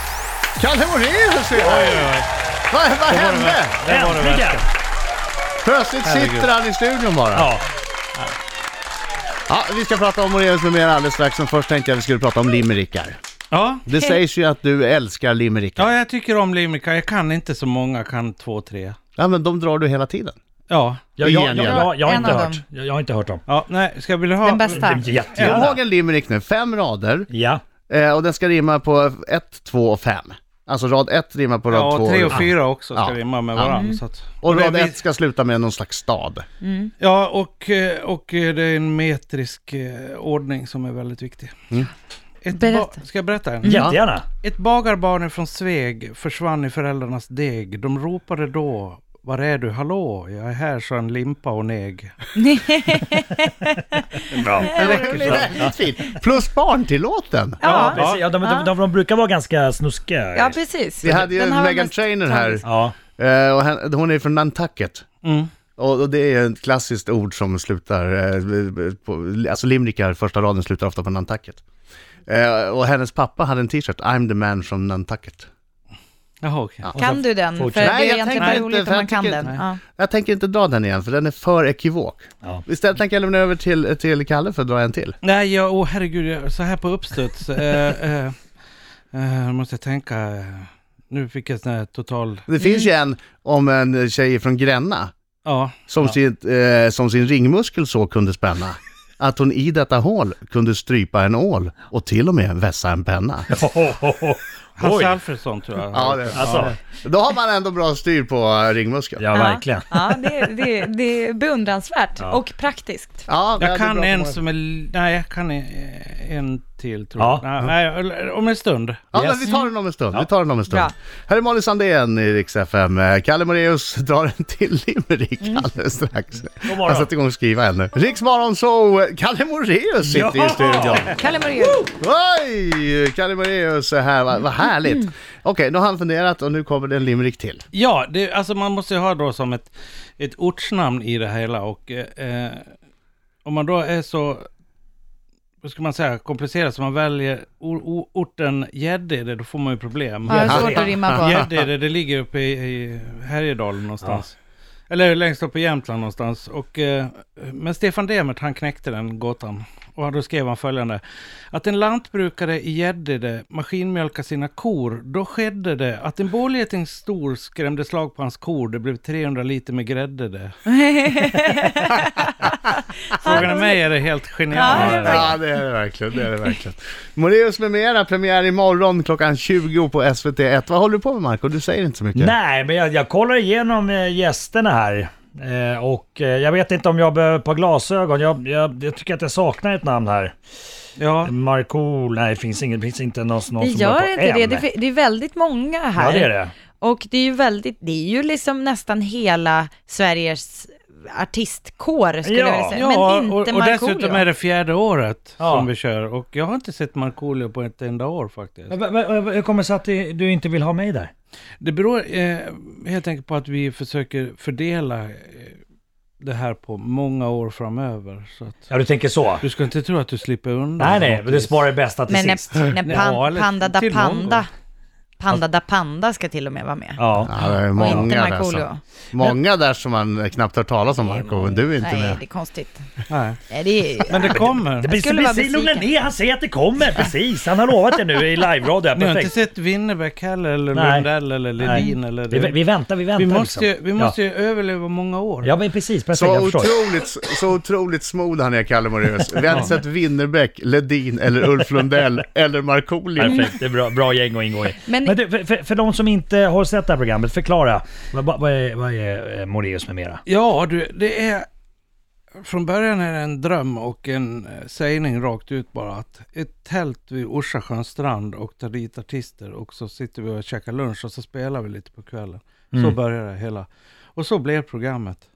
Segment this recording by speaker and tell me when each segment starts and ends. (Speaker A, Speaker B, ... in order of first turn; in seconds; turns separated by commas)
Speaker A: 0.6-2.0, Speaker B: 1.5-2.3, Speaker A: 2.7-3.8, Speaker B: 3.0-4.7, Speaker C: 3.8-4.6, Speaker A: 5.6-7.5, Speaker B: 6.0-6.5, Speaker C: 7.3-7.7, Speaker A: 9.5-13.2, Speaker B: 13.5-13.8, Speaker A: 13.8-15.9, Speaker B: 15.8-18.9, Speaker A: 19.2-20.3, Speaker B: 20.7-21.1, Speaker C: 21.2-23.4, Speaker A: 21.2-21.9, Speaker D: 21.6-22.6, Speaker B: 23.5-25.7, Speaker D: 24.4-25.0, Speaker C: 24.7-25.8, Speaker A: 25.4-27.3, Speaker C: 27.3-27.6, Speaker A: 27.9-33.7, Speaker B: 31.7-35.0, Speaker D: 33.6-34.0, Speaker A: 34.4-36.5, Speaker D: 36.6-36.9, Speaker B: 37.0-41.5, Speaker B: 42.4-52.1, Speaker D: 42.5-43.0, Speaker D: 43.6-43.9, Speaker C: 43.6-44.2, Speaker A: 43.6-44.0, Speaker D: 52.4-55.7, Speaker C: 54.3-55.7, Speaker A: 54.6-57.7, Speaker B: 54.9-55.3, Speaker D: 57.6-58.7, Speaker B: 57.6-58.3, Speaker C: 57.8-60.6, Speaker D: 60.3-62.6, Speaker A: 61.0-65.0, Speaker C: 62.6-63.0, Speaker B: 65.2-65.5, Speaker A: 65.8-71.6, Speaker A: 72.3-75.5, Speaker B: 76.4-76.9, Speaker C: 76.9-78.0, Speaker D: 76.9-79.8, Speaker A: 77.8-85.2, Speaker B: 78.3-78.6, Speaker B: 85.2-88.3, Speaker B: 89.1-92.4, Speaker A: 92.5-95.1, Speaker D: 92.6-92.9, Speaker B: 95.4-95.8, Speaker A: 95.9-103.6, Speaker C: 103.5-105.2, Speaker B: 104.8-106.8, Speaker A: 105.9-109.3, Speaker C: 106.3-106.7, Speaker C: 109.2-110.2, Speaker D: 109.3-113.3, Speaker A: 113.3-114.4, Speaker B: 113.6-119.4, Speaker C: 117.2-117.5, Speaker A: 119.1-131.2, Speaker D: 119.5-119.7, Speaker C: 126.6-127.1, Speaker C: 130.0-131.1, Speaker D: 130.9-131.9, Speaker A: 131.9-137.6, Speaker B: 137.7-142.7, Speaker B: 143.4-144.4, Speaker B: 145.6-154.3, Speaker D: 150.2-151.4, Speaker A: 150.4-151.3, Speaker B: 154.9-170.5, Speaker D: 170.7-173.8, Speaker B: 173.2-175.3, Speaker D: 174.5-175.3, Speaker C: 174.7-175.2, Speaker A: 174.9-182.4, Speaker C: 182.1-190.3, Speaker B: 191.0-191.3, Speaker C: 191.2-194.7, Speaker D: 193.6-204.2, Speaker C: 196.0-196.5, Speaker C: 202.2-202.8, Speaker B: 202.7-208.8, Speaker C: 205.4-205.7, Speaker C: 208.7-211.1, Speaker B: 211.6-215.6, Speaker B: 216.2-218.7, Speaker C: 218.7-219.4, Speaker B: 219.4-221.6, Speaker C: 220.8-223.0, Speaker D: 222.1-224.5, Speaker B: 222.7-224.5, Speaker D: 225.2-227.0, Speaker C: 227.0-227.3, Speaker A: 227.2-232.2, Speaker D: 227.8-228.8, Speaker B: 227.8-228.1, Speaker D: 231.8-232.8, Speaker B: 233.1-233.4, Speaker D: 233.5-235.9, Speaker B: 234.1-234.9, Speaker C: 234.4-239.3, Speaker B: 238.9-242.6, Speaker C: 240.7-241.1, Speaker C: 241.6-244.1, Speaker D: 241.6-242.0, Speaker B: 243.1-245.5, Speaker C: 245.4-246.8, Speaker A: 246.1-253.5, Speaker C: 253.2-260.2, Speaker D: 254.8-255.2, Speaker B: 260.2-261.4, Speaker B: 262.4-275.2